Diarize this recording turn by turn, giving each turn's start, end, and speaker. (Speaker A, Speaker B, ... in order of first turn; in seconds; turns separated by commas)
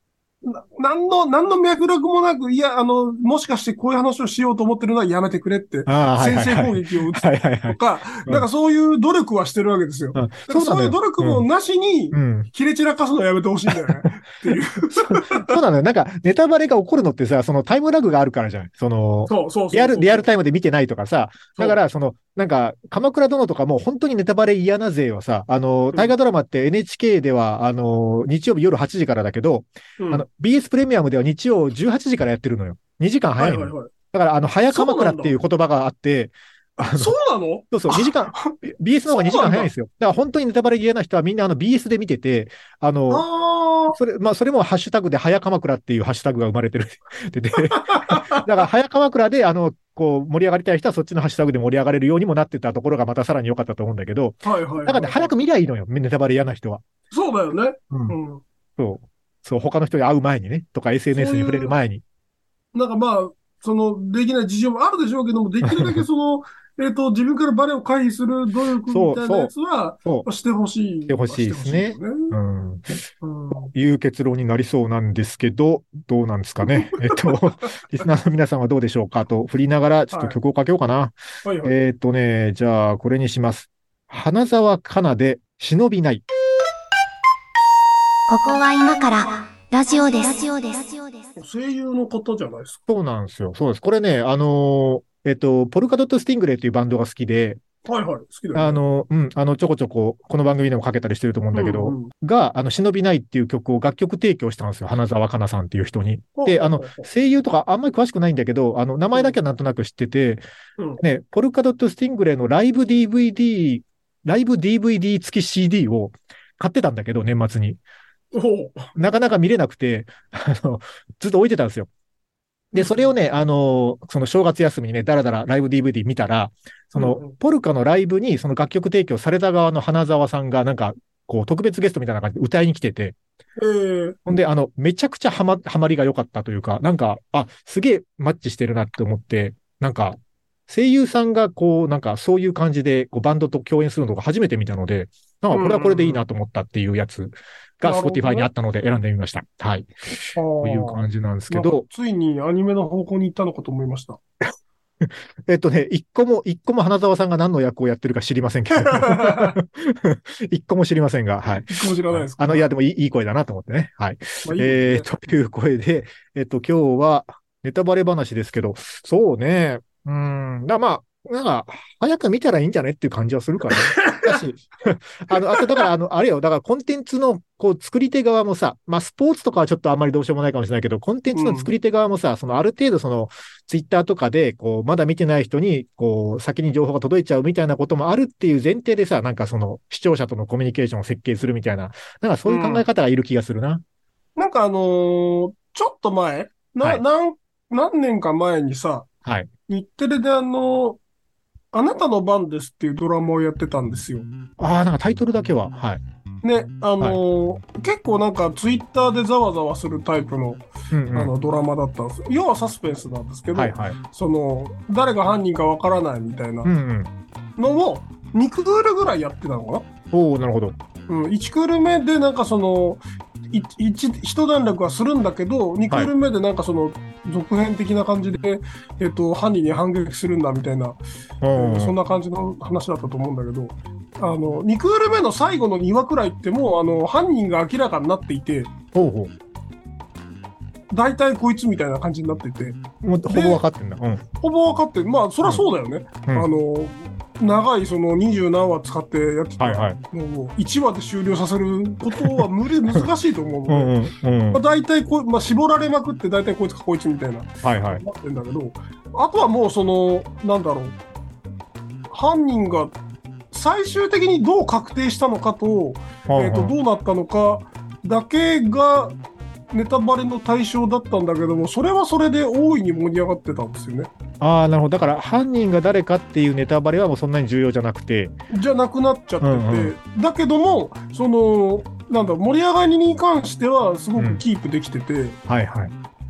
Speaker A: 0.4-15.5, Speaker B: 5.9-8.5, Speaker B: 10.2-11.5, Speaker B: 12.1-12.5, Speaker B: 14.0-14.6, Speaker B: 15.3-37.1, Speaker A: 19.3-20.3, Speaker A: 30.0-30.3, Speaker A: 33.4-33.9, Speaker A: 34.7-35.4, Speaker A: 36.8-39.7, Speaker B: 37.7-43.2, Speaker A: 43.1-44.0, Speaker B: 43.9-56.8, Speaker A: 47.6-48.5, Speaker A: 54.4-55.3, Speaker A: 57.1-58.4, Speaker B: 57.9-58.2, Speaker B: 58.8-62.0, Speaker A: 61.1-61.8, Speaker A: 62.7-72.4, Speaker B: 65.6-66.0, Speaker B: 68.9-69.5, Speaker B: 71.1-72.9, Speaker A: 73.2-73.7, Speaker B: 73.7-86.2, Speaker A: 76.6-77.3, Speaker A: 80.1-80.4, Speaker A: 81.5-81.8, Speaker C: 88.3-91.4, Speaker A: 91.4-92.8, Speaker B: 92.9-97.6, Speaker A: 97.9-98.9, Speaker B: 98.5-110.4, Speaker A: 101.5-102.1, Speaker A: 106.4-107.1, Speaker B: 111.0-117.8, Speaker A: 118.3-119.0, Speaker B: 119.0-121.9, Speaker B: 122.7-133.2, Speaker A: 122.7-123.1, Speaker A: 127.0-127.3, Speaker A: 133.6-134.2, Speaker B: 134.3-151.8, Speaker A: 145.5-146.2, Speaker A: 147.8-148.5, Speaker A: 150.3-154.2, Speaker B: 155.0-193.8, Speaker A: 158.7-159.6, Speaker A: 161.6-162.7, Speaker A: 164.4-165.2, Speaker A: 173.7-174.4, Speaker A: 175.3-175.9, Speaker A: 181.3-181.7, Speaker A: 192.4-192.9, Speaker A: 194.4-199.1, Speaker B: 199.2-199.5, Speaker A: 199.7-201.0, Speaker A: 201.7-204.3, Speaker B: 204.6-206.0, Speaker A: 206.4-216.7, Speaker B: 210.9-211.3, Speaker B: 213.5-214.0, Speaker B: 216.7-217.1, Speaker A: 217.6-219.9, Speaker B: 220.1-220.8, Speaker A: 221.1-231.0, Speaker B: 231.4-231.9, Speaker A: 231.5-238.7, Speaker B: 238.9-239.3, Speaker A: 240.9-243.6, Speaker B: 243.0-244.2, Speaker A: 244.4-254.0, Speaker B: 249.6-250.0, Speaker B: 252.2-252.5, Speaker B: 253.7-254.6, Speaker A: 254.5-261.0, Speaker B: 257.6-258.0, Speaker A: 262.1-263.0, Speaker A: 263.5-269.2, Speaker B: 266.3-266.7, Speaker A: 269.7-274.1, Speaker B: 274.4-278.4, Speaker A: 278.5-285.4, Speaker B: 279.4-279.9, Speaker B: 284.2-284.4, Speaker B: 285.5-285.9